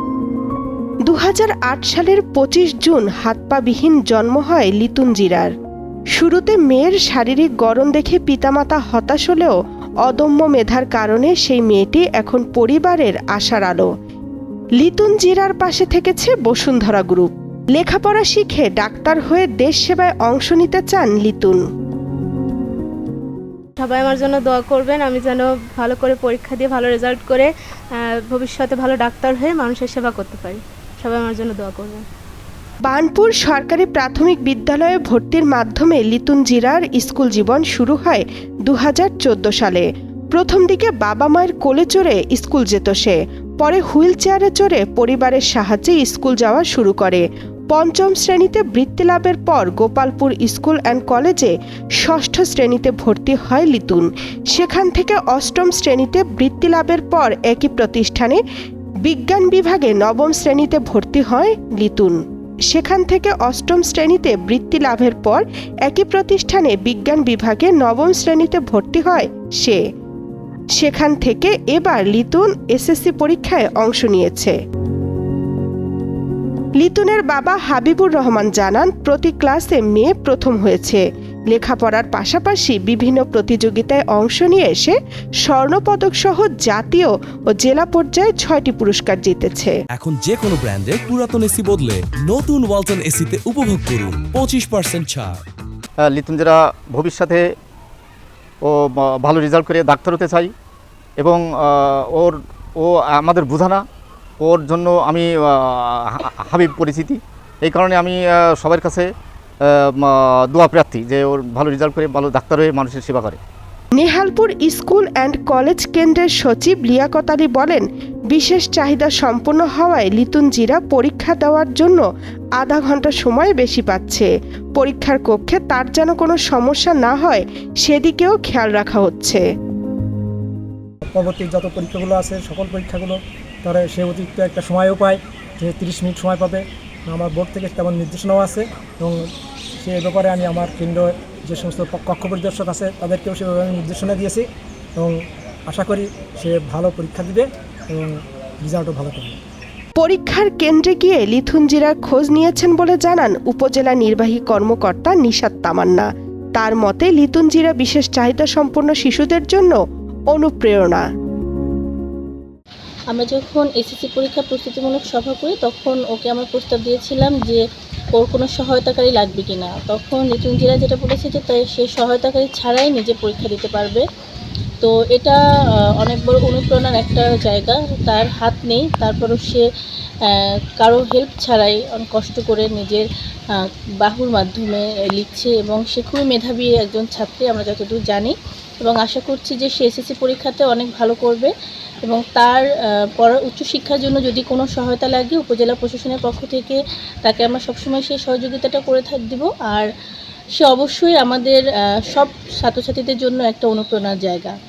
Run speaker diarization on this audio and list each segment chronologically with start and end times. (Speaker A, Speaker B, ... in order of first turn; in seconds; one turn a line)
Speaker A: 1.1-5.5
Speaker A: 6.2-13.9
Speaker A: 14.8-21.6
Speaker B: 23.8-27.5
Speaker B: 28.2-32.0
Speaker A: 32.9-58.4
Speaker A: 59.0-62.2
Speaker A: 62.7-69.8
Speaker A: 70.8-74.5
Speaker A: 76.8-85.0
Speaker A: 85.5-89.7
Speaker C: 89.9-95.4
Speaker D: 96.0-97.5
Speaker D: 98.6-100.5
Speaker D: 101.2-103.8
Speaker D: 104.4-109.1
Speaker D: 109.7-113.4
Speaker A: 114.0-122.0
Speaker A: 122.6-129.4
Speaker E: 131.1-139.3
Speaker E: 139.8-144.5
Speaker E: 145.0-149.4
Speaker A: 150.0-159.8
Speaker A: 160.3-161.0
Speaker F: 163.1-167.6
Speaker F: 168.1-174.0
Speaker F: 174.8-175.4
Speaker F: 176.0-179.6
Speaker F: 180.2-191.5
Speaker F: 192.1-199.9
Speaker F: 200.6-204.6